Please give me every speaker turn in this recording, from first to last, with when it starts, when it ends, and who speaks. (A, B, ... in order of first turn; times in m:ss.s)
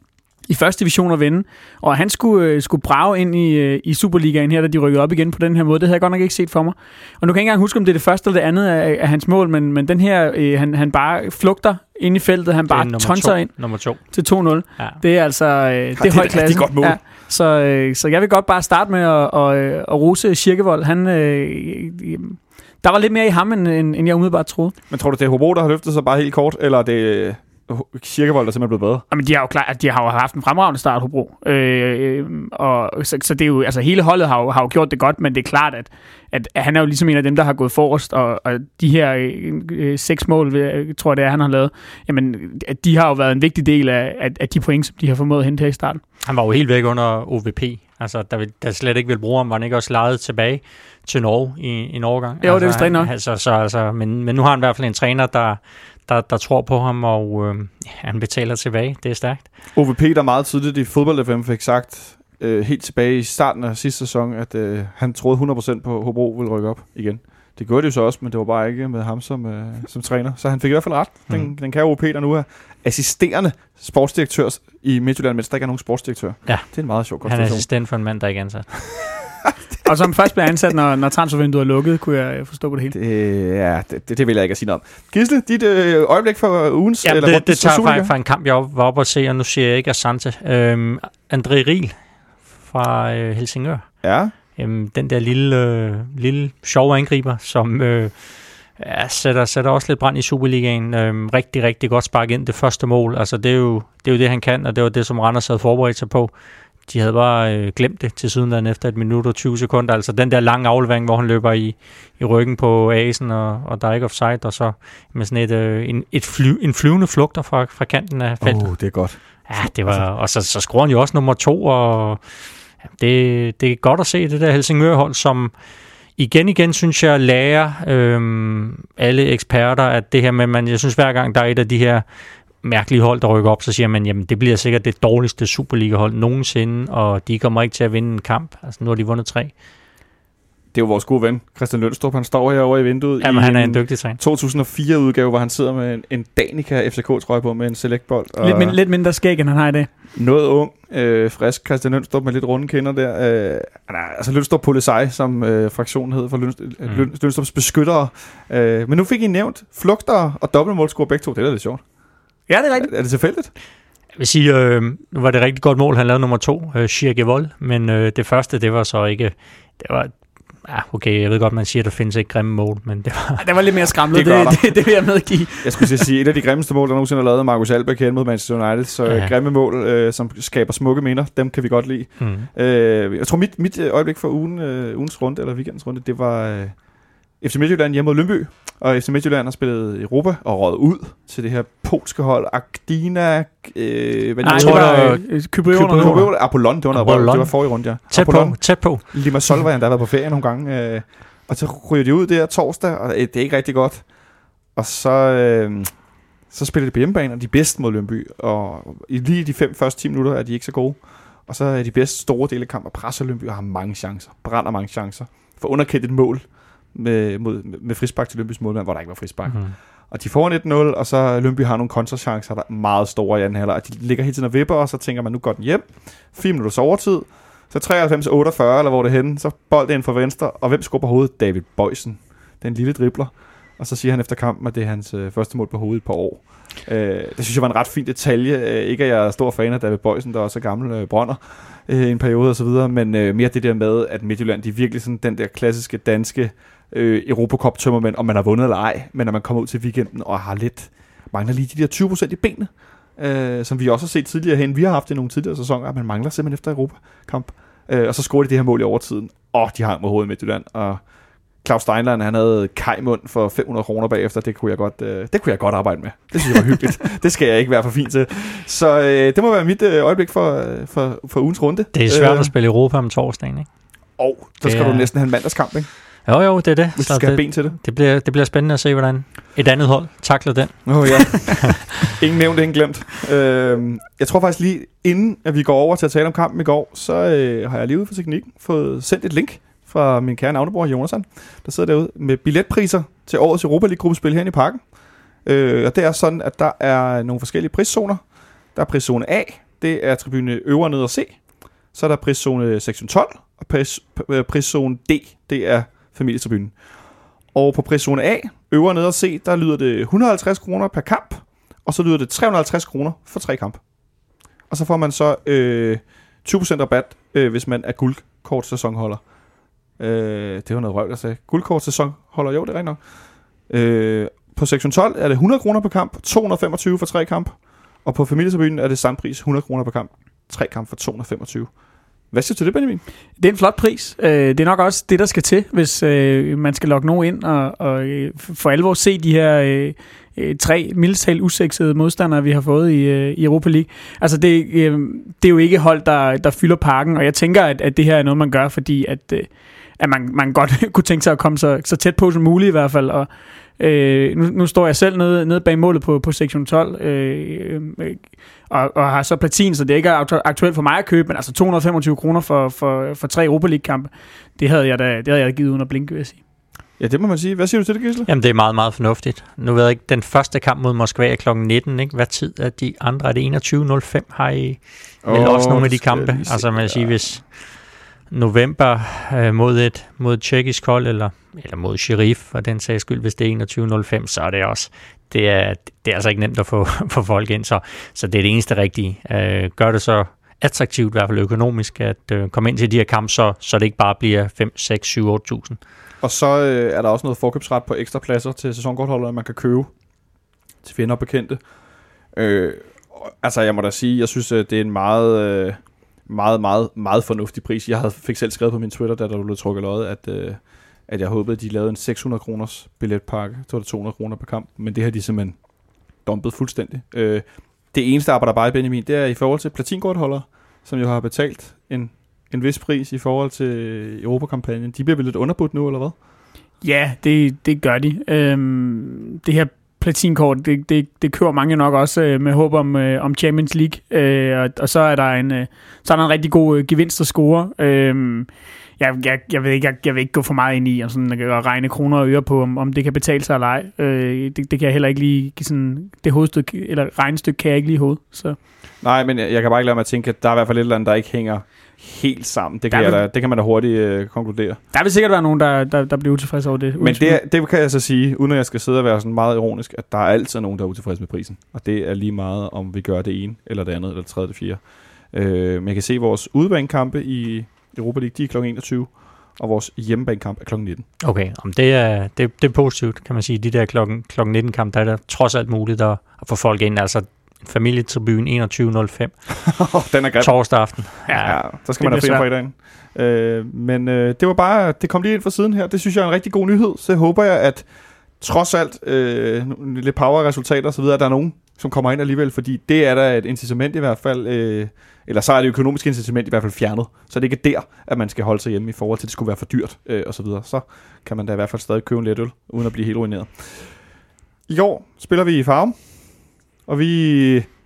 0:00.5-0:24.8 A
0:12.7-0:14.1 B
0:16.0-0:17.0 C
0:24.9-0:29.0 C
0:29.1-0:46.0 A
0:46.2-0:59.5 B
0:52.4-0:53.1 A
0:59.8-1:17.7 C
1:17.2-1:18.9 B
1:19.8-1:23.0 A
1:22.9-1:28.1 C
1:27.0-1:32.0 B
1:32.6-1:34.0 B
1:34.0-1:34.3 C
1:34.6-1:46.3 B
1:46.8-1:58.8 B
1:58.4-2:00.1 C
1:59.4-2:02.3 B
2:02.9-2:05.6 B
2:06.2-2:12.0 B
2:12.6-2:19.5 B
2:20.7-2:28.8 C
2:23.2-2:24.2 B
2:28.4-2:29.9 A
2:30.2-2:41.8 C
2:42.5-2:42.9 A
2:42.8-2:43.5 C
2:44.2-2:50.1 B
2:50.6-2:53.4 B
2:53.4-2:56.0 A
2:54.1-2:54.8 C
2:55.6-3:06.8 C
2:59.1-2:59.3 B
3:02.2-3:02.5 B
3:07.4-3:15.2 C
3:14.4-3:16.3 A
3:14.4-3:19.1 B
3:15.7-3:24.1 C
3:24.8-3:26.0 C
3:26.5-4:21.0 C
3:39.5-3:39.8 B
4:21.6-4:32.5 C
4:31.9-4:33.7 B
4:34.2-4:35.9 C
4:34.6-4:35.1 B
4:36.3-4:41.5 B
4:37.0-4:37.8 C
4:40.9-4:54.8 C
4:55.4-4:58.2 C
4:58.8-5:01.4 C
5:01.9-5:06.8 C
5:07.5-5:13.8 C
5:14.7-5:19.2 C
5:20.0-5:23.0 C
5:23.7-5:31.7 C
5:32.3-5:33.0 C
5:33.4-5:53.3 A
5:53.8-6:06.4 A
6:07.0-6:08.3 C
6:08.3-6:35.8 B
6:15.2-6:17.2 C
6:36.2-6:39.9 C
6:40.8-6:41.6 C
6:42.4-6:55.6 C
6:56.2-7:06.2 C
7:06.8-7:28.6 A
7:29.0-7:34.8 C
7:32.9-7:33.2 A
7:34.9-7:37.4 A
7:37.0-7:51.1 C
7:51.2-7:59.6 B
7:59.7-8:00.6 C
8:00.4-8:01.5 B
8:01.2-8:07.9 C
8:01.3-8:02.4 A
8:08.4-8:23.9 C
8:24.7-8:26.1 C
8:26.9-8:27.7 C